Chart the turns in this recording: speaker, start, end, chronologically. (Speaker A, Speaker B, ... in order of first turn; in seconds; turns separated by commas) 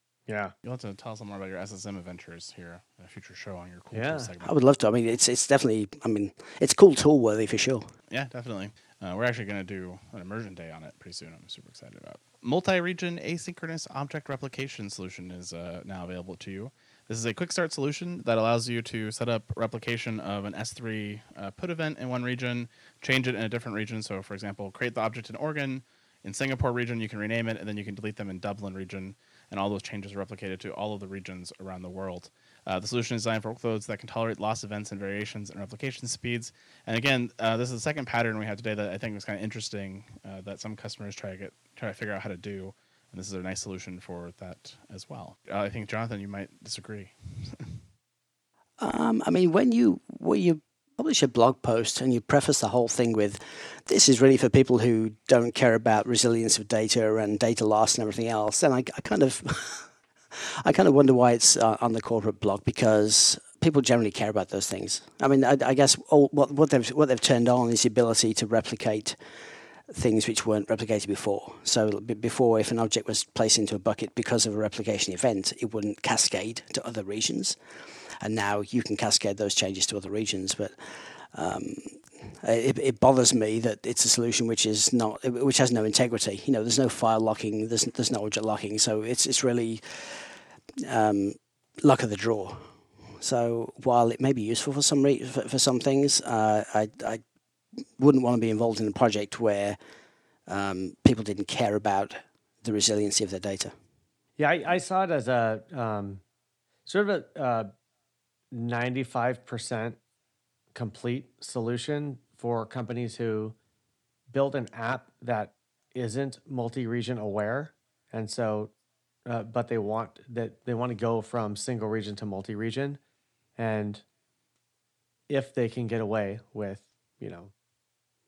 Speaker A: 0.3-0.5, Speaker B: 0.6-4.5, Speaker A: 3.9-4.3, Speaker C: 4.4-7.9, Speaker B: 8.1-47.8, Speaker C: 48.8-69.2, Speaker C: 69.9-77.6, Speaker C: 78.2-80.8, Speaker C: 81.3-97.2, Speaker C: 98.0-99.8, Speaker C: 100.5-103.7, Speaker A: 104.4-106.2, Speaker A: 106.8-107.7, Speaker A: 108.5-110.0, Speaker A: 110.7-113.5, Speaker A: 114.3-118.7, Speaker A: 119.2-123.0, Speaker A: 123.6-124.0, Speaker A: 125.3-127.5